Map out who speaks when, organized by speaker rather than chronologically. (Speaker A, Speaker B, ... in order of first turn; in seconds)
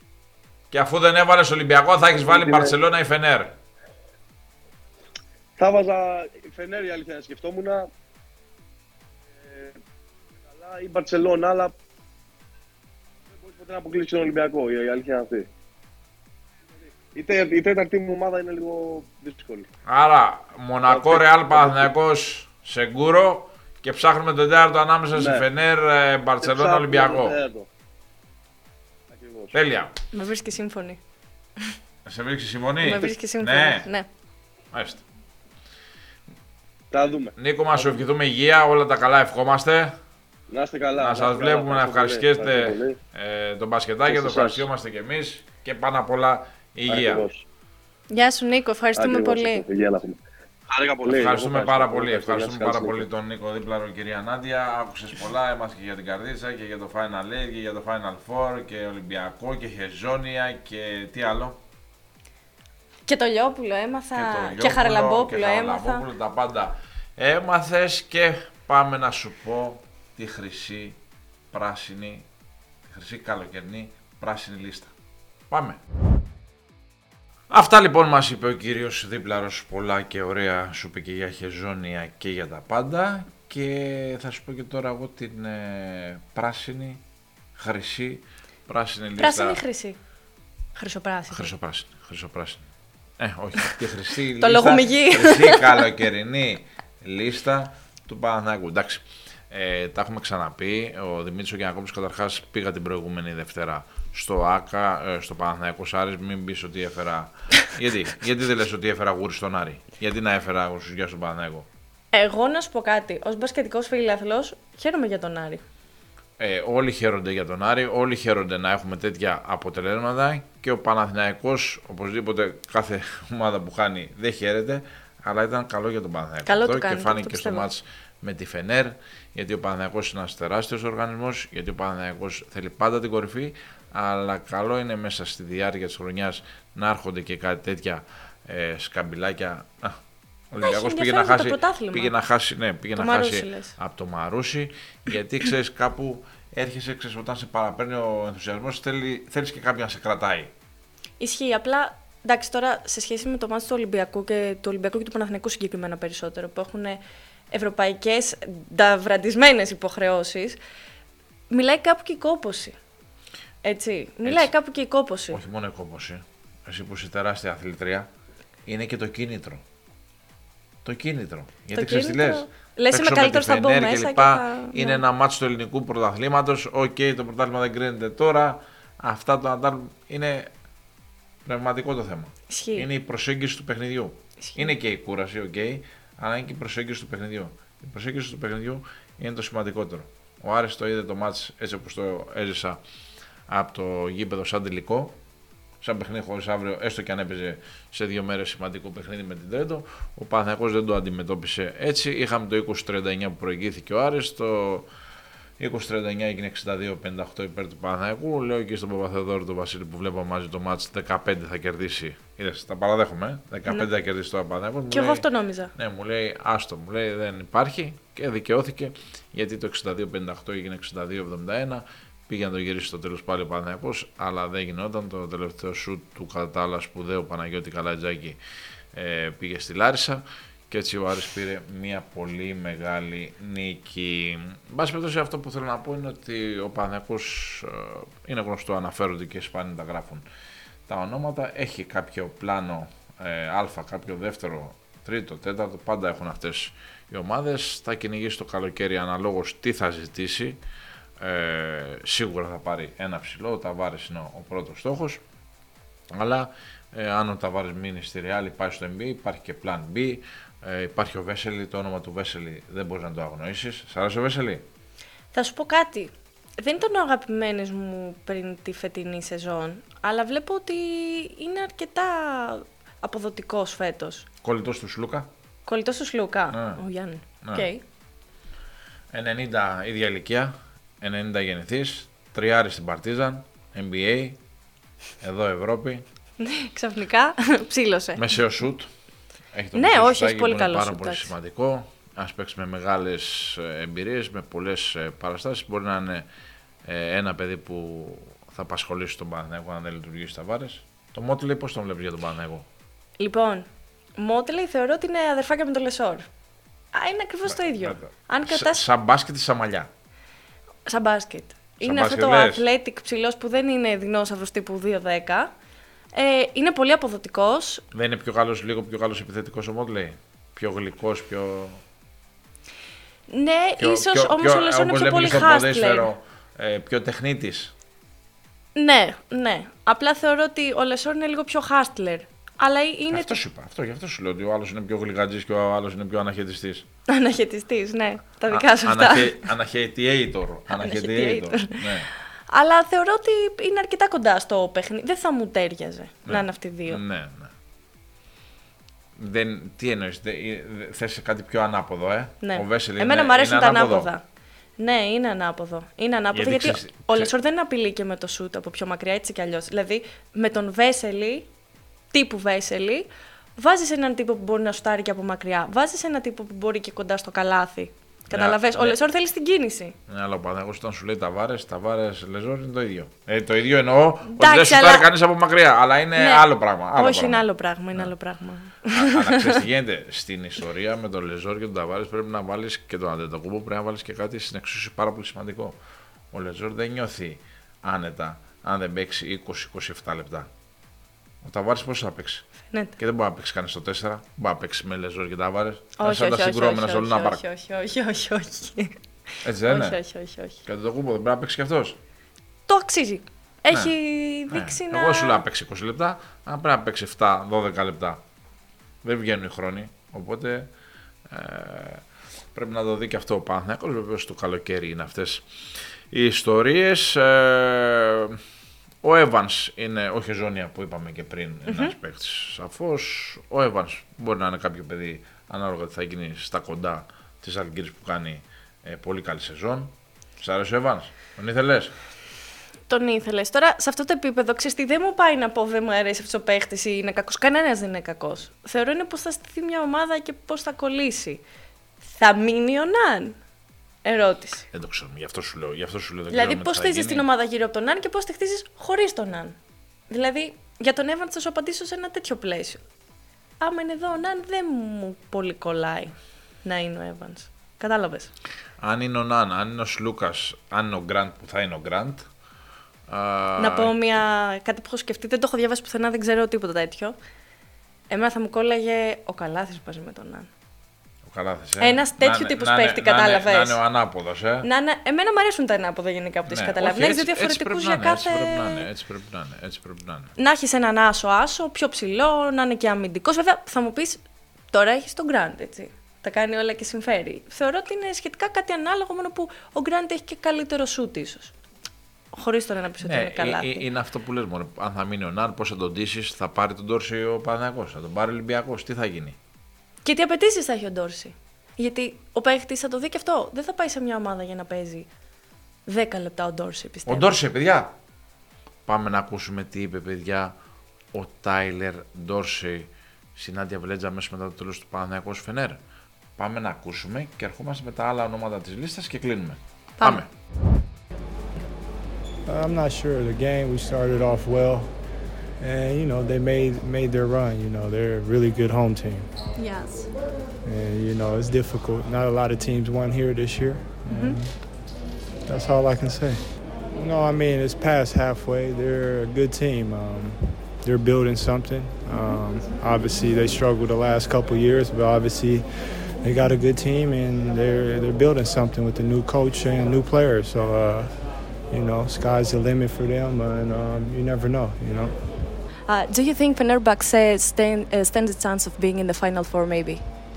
Speaker A: 0.7-3.5, 19.9-27.4, 29.5-29.9, 32.1-33.9, 34.7-35.0, 37.4-40.0, 41.0-47.3, 51.0-61.6, 64.2-71.0, 71.5-72.3, 72.9-74.9, 75.5-75.8, 77.5-87.0, 87.6-89.6, 91.3-92.7, 93.2-111.7, 116.4-140.0, 140.5-150.5, 164.2-164.5, 165.3-168.1, 168.7-169.6, 170.8-180.5, 181.5-192.8, 193.5-195.2, 195.8-204.9, 205.6-215.2, 215.8-228.4, 228.9-240.2, 240.9-250.6, 251.2-255.2, 256.1-264.6, 274.4-275.3, 276.5-276.8, 279.1-284.4, 285.2-286.0, 288.2-288.9, 289.5-296.3, 296.9-302.7, 307.5-309.9, 311.8-312.6, 317.9-321.8, 323.8-327.7, 333.1-336.9, 338.5-342.1, 346.3-347.5, 349.2-354.1, 356.3-357.3, 368.3-369.0, 370.1-377.4, 378.9-385.8, 386.3-390.5, 391.4-392.5, 393.0-397.4, 399.4-400.0, 400.7-402.0, 404.5-408.2, 409.0-410.7, 411.3-415.5, 416.1-418.4, 419.0-431.9, 444.7-447.3, 458.8-462.3, 463.1-463.9, 471.3-474.7, 476.5-480.3, 493.0-499.4, 507.1-507.9, 508.9-510.5, 511.1-515.8, 516.4-520.3
Speaker B: 2.1-2.8, 5.6-7.9, 9.3-9.8, 10.4-11.7, 13.3-15.5, 17.1-19.7, 20.9-21.9, 25.1-25.5, 26.4-27.7, 29.1-29.6, 36.9-38.0, 40.5-43.0, 44.1-44.7, 46.9-47.5, 48.9-53.1
Speaker C: 30.1-31.0, 32.8-34.1, 48.1-49.7, 63.1-66.0, 89.2-90.0, 90.8-91.5, 94.4-95.8, 112.1-115.6, 126.5-127.7, 140.6-142.1, 143.0-143.7, 151.2-160.6, 161.5-162.8, 163.6-165.4, 171.8-175.0, 182.5-182.9, 184.5-184.7, 214.9-215.7, 265.3-274.3, 275.7-277.8, 286.4-288.3, 289.8-291.3, 303.2-306.3, 306.9-308.8, 310.9-315.5, 316.1-317.8, 323.3-326.1, 328.8-333.4, 337.1-339.4, 340.7-341.9, 342.5-347.0, 352.4-354.2, 354.8-361.5, 362.1-370.0, 374.3-375.1, 376.2-379.6, 392.7-393.0, 396.0-399.0, 399.6-400.6, 402.7-405.4, 421.7-421.9, 432.9-441.4, 442.0-443.4, 444.1-444.7, 446.3-449.6, 450.1-452.8, 453.6-458.3, 463.6-467.2, 468.1-470.5, 471.8-473.8, 474.6-478.9, 480.4-484.2, 484.7-491.5, 492.3-493.9, 500.1-505.1, 505.9-507.3, 520.0-520.2, 529.6-530.1, 534.1-534.4, 555.9-560.0
Speaker D: 522.5-524.9, 525.6-529.3, 530.6-534.6, 535.5-536.4, 536.9-545.7, 546.2-555.1